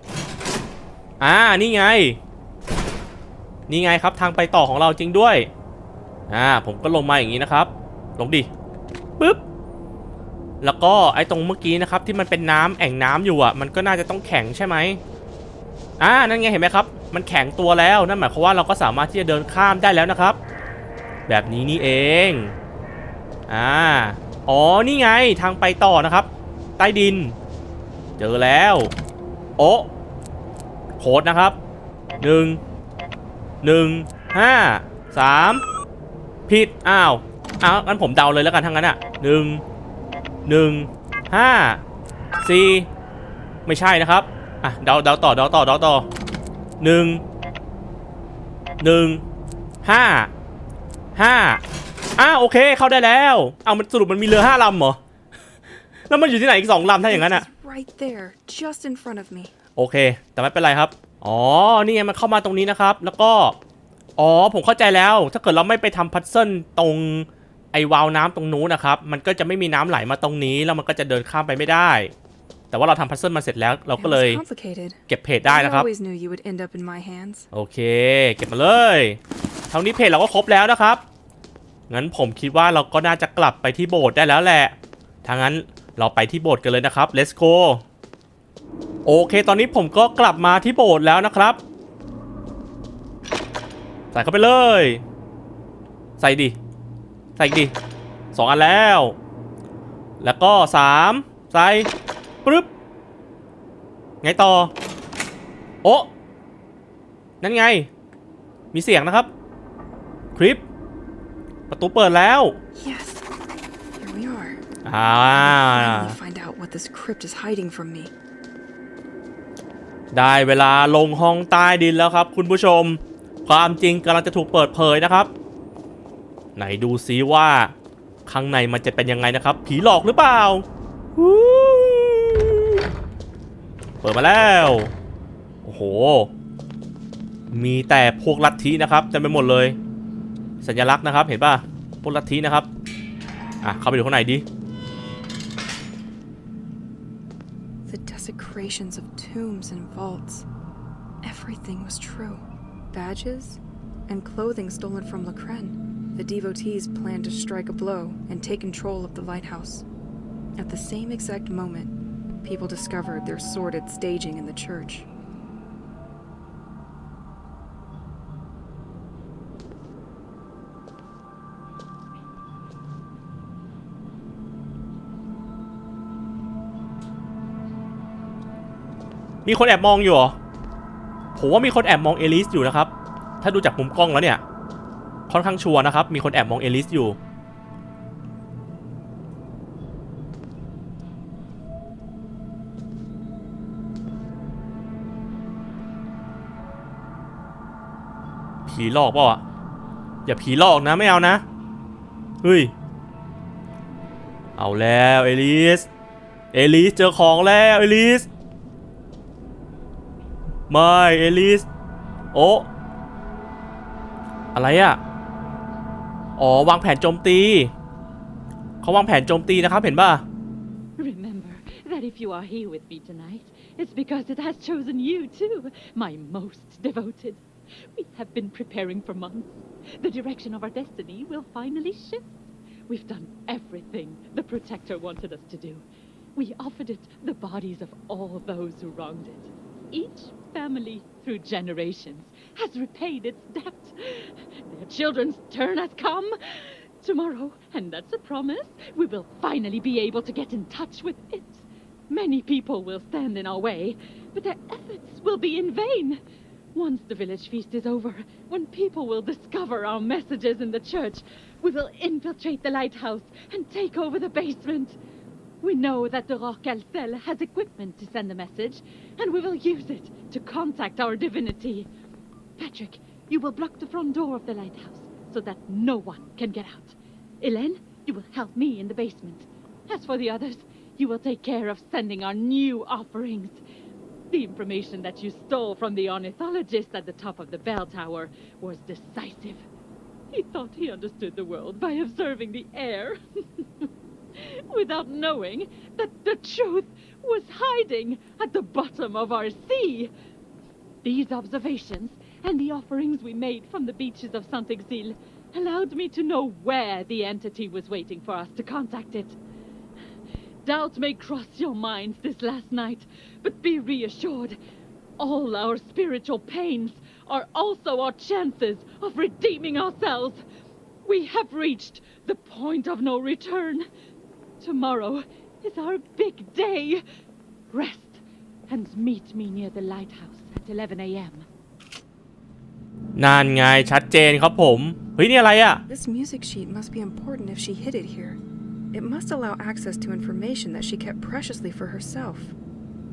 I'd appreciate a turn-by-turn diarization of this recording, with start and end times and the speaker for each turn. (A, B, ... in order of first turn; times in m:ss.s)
0:01.2-0:02.2 A
0:03.7-0:05.5 A
0:06.3-0:08.5 A
0:10.6-0:15.0 A
0:16.0-0:20.4 A
0:21.3-0:22.6 A
0:23.5-0:27.4 A
0:28.2-0:28.9 A
0:29.6-0:29.9 A
0:31.0-0:31.6 A
0:32.2-0:32.6 A
0:33.6-0:35.6 A
0:36.5-0:39.6 A
0:40.5-0:41.8 A
0:42.4-0:42.9 A
0:43.6-0:46.1 A
0:46.8-0:47.2 A
0:48.8-0:49.2 A
0:49.8-0:50.3 A
0:51.2-0:51.6 A
0:52.2-0:55.0 A
0:56.1-0:57.5 A
0:57.1-0:59.5 B
0:59.8-1:03.6 A
1:04.2-1:12.1 A
1:12.7-1:14.4 A
1:14.0-1:17.5 B
1:15.1-1:15.9 A
1:17.5-1:19.2 A
1:19.7-1:21.0 A
1:21.9-1:27.8 A
1:29.1-1:31.6 A
1:34.1-1:35.0 A
1:36.2-1:36.6 A
1:37.4-1:37.7 A
1:38.3-1:39.2 A
1:40.2-1:41.9 A
1:44.2-1:44.7 A
1:45.8-1:46.1 A
1:47.4-1:47.9 A
1:48.7-1:49.3 A
1:50.4-1:50.6 A
1:51.7-1:52.6 A
1:52.8-1:53.2 B
1:54.0-1:54.6 B
1:54.8-1:56.2 A
1:55.3-1:58.1 B
2:00.1-2:05.3 A
2:06.6-2:07.7 A
2:08.2-2:12.8 A
2:14.0-2:14.9 A
2:15.6-2:16.3 A
2:17.5-2:19.8 A
2:20.6-2:22.7 A
2:23.6-2:24.4 A
2:27.9-2:30.5 B
2:31.2-2:39.8 B
2:40.6-2:45.1 B
2:59.4-3:00.4 A
3:01.4-3:04.4 A
3:05.3-3:07.2 A
3:18.6-3:19.4 A
3:20.2-3:21.4 A
3:22.4-3:22.7 A
3:24.6-3:25.9 A
3:26.5-3:28.3 A
3:30.7-3:31.7 A
3:32.3-3:32.7 A
3:34.6-3:35.0 A
3:36.4-3:37.7 A
3:38.8-3:40.2 A
3:41.0-3:47.4 C
3:47.9-3:52.3 C
3:52.9-3:55.8 C
3:56.4-4:16.2 C
4:16.7-4:25.0 C
4:25.6-4:31.9 C
4:32.6-4:43.6 C
4:44.3-4:49.6 C
4:50.3-5:00.1 C
5:01.0-5:09.4 C
5:10.6-5:14.6 C
5:15.2-5:20.4 C
5:21.0-5:23.9 C
5:24.6-5:27.0 C
5:27.7-5:31.5 C
5:33.2-5:35.8 A
5:35.9-5:38.4 B
5:38.9-5:42.5 B